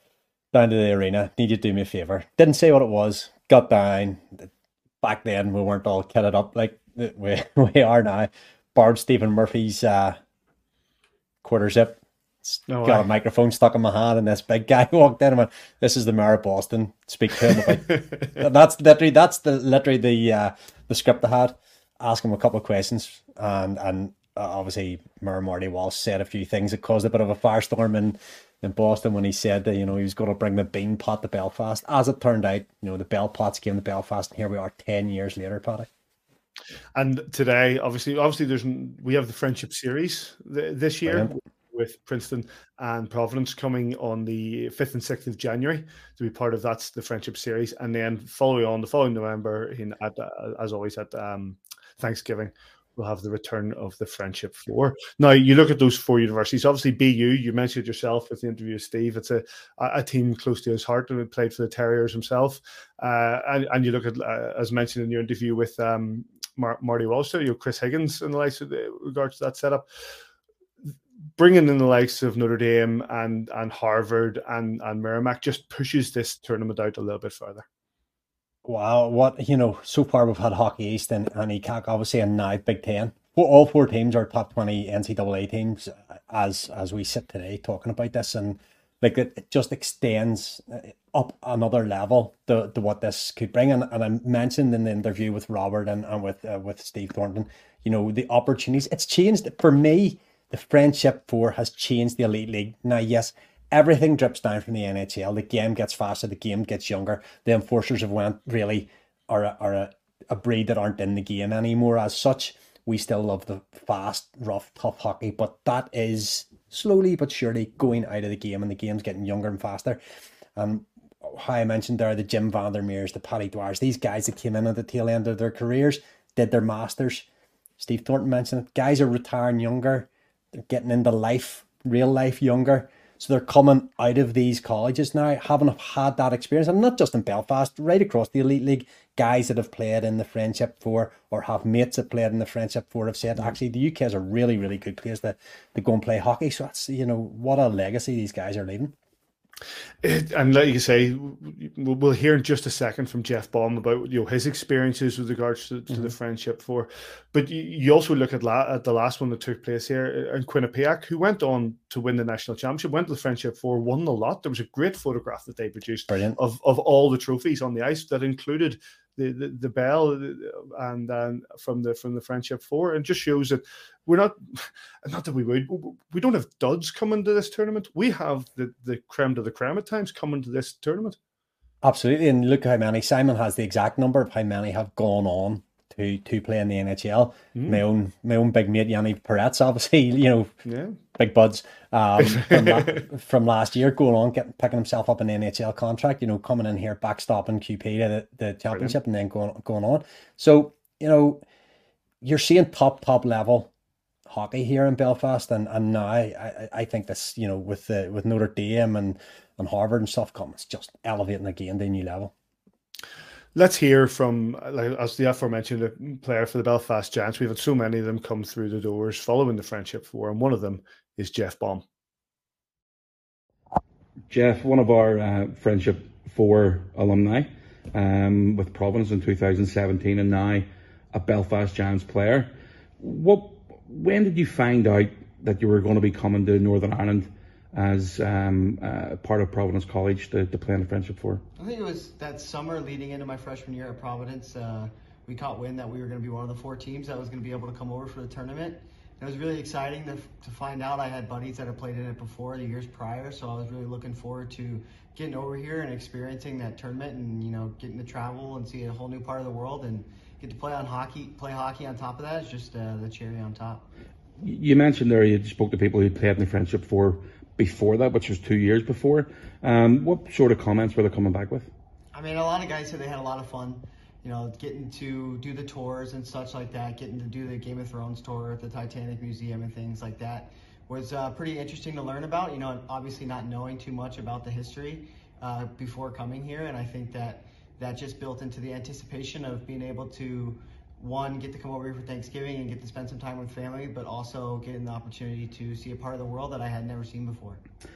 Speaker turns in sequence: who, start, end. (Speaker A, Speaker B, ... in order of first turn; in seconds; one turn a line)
Speaker A: 0.5-4.5
Speaker A: 5.0-10.2
Speaker A: 11.4-35.9
Speaker B: 12.7-13.1
Speaker B: 37.0-69.9
Speaker A: 41.1-41.3
Speaker B: 71.4-77.7
Speaker A: 78.7-120.0
Speaker A: 120.6-127.3
Speaker A: 127.8-148.9
Speaker B: 150.0-181.2
Speaker A: 166.1-166.4
Speaker A: 181.8-190.5
Speaker B: 187.6-187.8
Speaker B: 190.7-191.0
Speaker A: 191.2-201.4
Speaker B: 192.2-192.9
Speaker A: 202.2-203.7
Speaker A: 204.3-212.3
Speaker B: 213.6-221.8
Speaker C: 224.3-241.4
Speaker D: 241.6-263.9
Speaker C: 264.4-271.7
Speaker D: 272.1-297.6